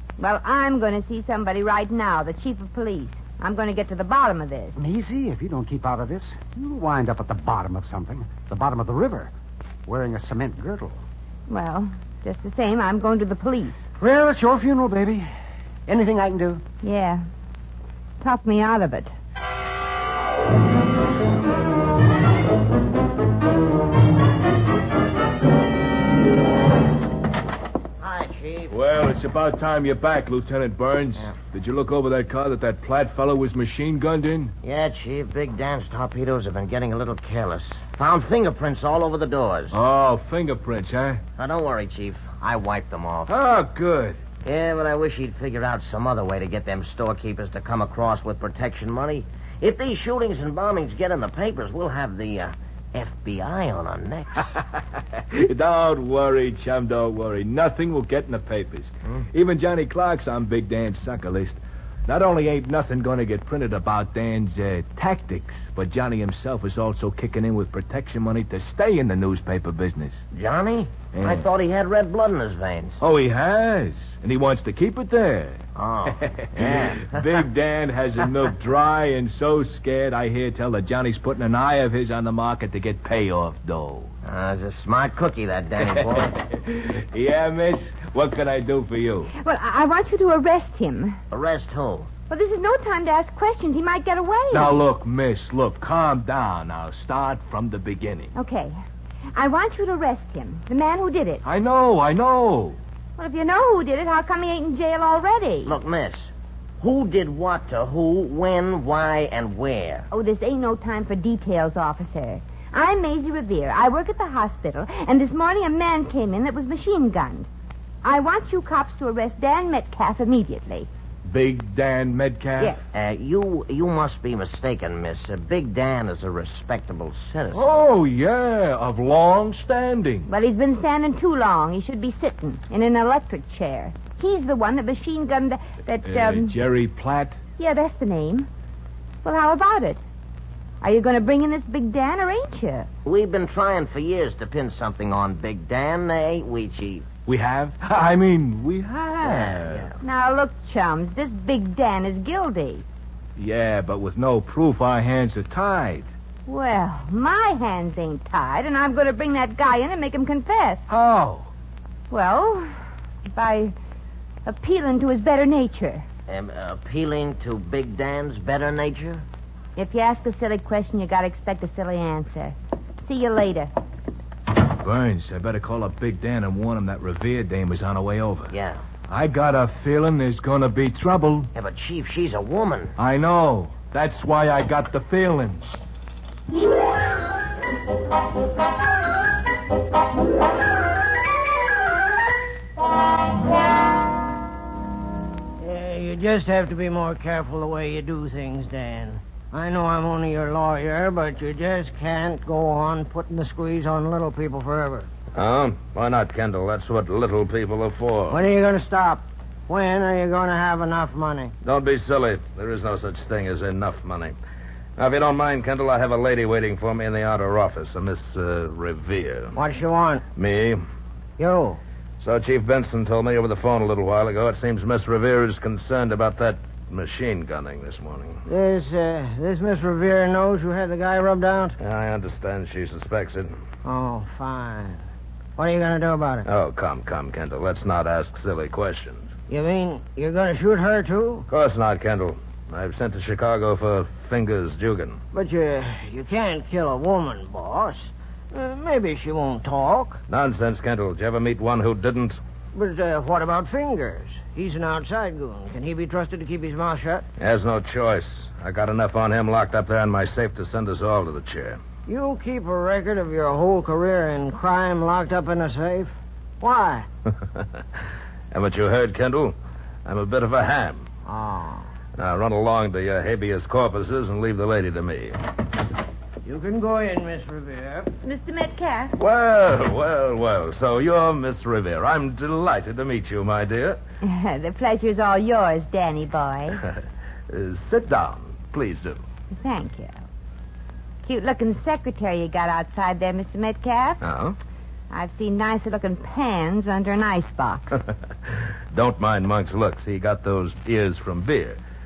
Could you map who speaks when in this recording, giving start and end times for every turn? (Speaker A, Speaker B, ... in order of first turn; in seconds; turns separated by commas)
Speaker A: 0.2-4.8, Speaker B: 4.8-9.3, Speaker B: 9.8-11.0, Speaker A: 11.5-13.9, Speaker B: 14.0-15.3, Speaker B: 15.8-16.6, Speaker A: 16.8-17.2, Speaker A: 18.2-19.1, Speaker C: 28.0-28.8, Speaker D: 28.7-34.5, Speaker C: 34.6-39.8, Speaker D: 39.7-41.2, Speaker C: 41.4-43.3, Speaker D: 43.3-44.2, Speaker C: 44.4-54.5, Speaker D: 55.2-70.2, Speaker C: 70.3-73.0, Speaker D: 71.1-71.5, Speaker D: 73.0-75.6, Speaker C: 75.8-77.4, Speaker D: 76.2-84.1, Speaker C: 84.2-86.4, Speaker D: 86.4-89.3, Speaker A: 89.3-91.2, Speaker C: 91.3-92.1, Speaker A: 92.3-94.8, Speaker D: 94.5-98.3, Speaker A: 98.3-98.8, Speaker A: 99.3-101.4, Speaker D: 101.4-102.8, Speaker A: 103.2-105.8, Speaker C: 105.7-110.1, Speaker A: 110.1-117.5, Speaker A: 118.0-120.9, Speaker D: 121.2-122.8, Speaker C: 122.9-127.9, Speaker D: 127.5-130.3, Speaker A: 130.3-136.6, Speaker D: 136.1-137.4, Speaker A: 137.6-138.5, Speaker A: 139.2-140.0, Speaker A: 140.8-142.9, Speaker C: 143.0-147.1, Speaker D: 147.2-149.9, Speaker C: 149.2-149.9, Speaker A: 150.0-152.8, Speaker D: 153.4-156.1, Speaker A: 156.5-160.9, Speaker D: 160.9-161.5, Speaker A: 162.1-162.8, Speaker A: 163.3-163.7, Speaker A: 164.4-166.1, Speaker C: 166.3-169.2, Speaker A: 169.8-173.7, Speaker D: 174.8-178.5, Speaker C: 178.5-178.8, Speaker D: 179.1-181.5, Speaker C: 181.5-182.9, Speaker D: 183.0-185.6, Speaker E: 195.6-205.1, Speaker F: 205.3-208.4, Speaker E: 208.3-211.5, Speaker F: 211.6-214.3, Speaker F: 215.0-219.6, Speaker E: 219.6-220.2, Speaker F: 220.3-220.8, Speaker E: 221.4-221.8, Speaker F: 222.2-228.4, Speaker E: 228.4-231.8, Speaker F: 231.8-233.5, Speaker E: 233.8-235.0, Speaker E: 235.6-236.4, Speaker F: 236.4-239.3, Speaker E: 239.5-241.4, Speaker F: 241.5-245.2, Speaker E: 245.3-250.2, Speaker F: 250.3-252.4, Speaker E: 252.7-257.2, Speaker F: 257.4-261.8, Speaker E: 262.1-267.1, Speaker F: 268.5-271.1, Speaker E: 271.2-271.9, Speaker F: 272.2-275.4, Speaker E: 276.4-278.1, Speaker A: 278.2-279.1, Speaker F: 279.2-284.0, Speaker A: 284.2-286.8, Speaker F: 287.5-289.2, Speaker A: 289.5-290.2, Speaker A: 291.2-294.2, Speaker F: 294.2-294.6, Speaker A: 295.1-298.0, Speaker F: 298.9-301.8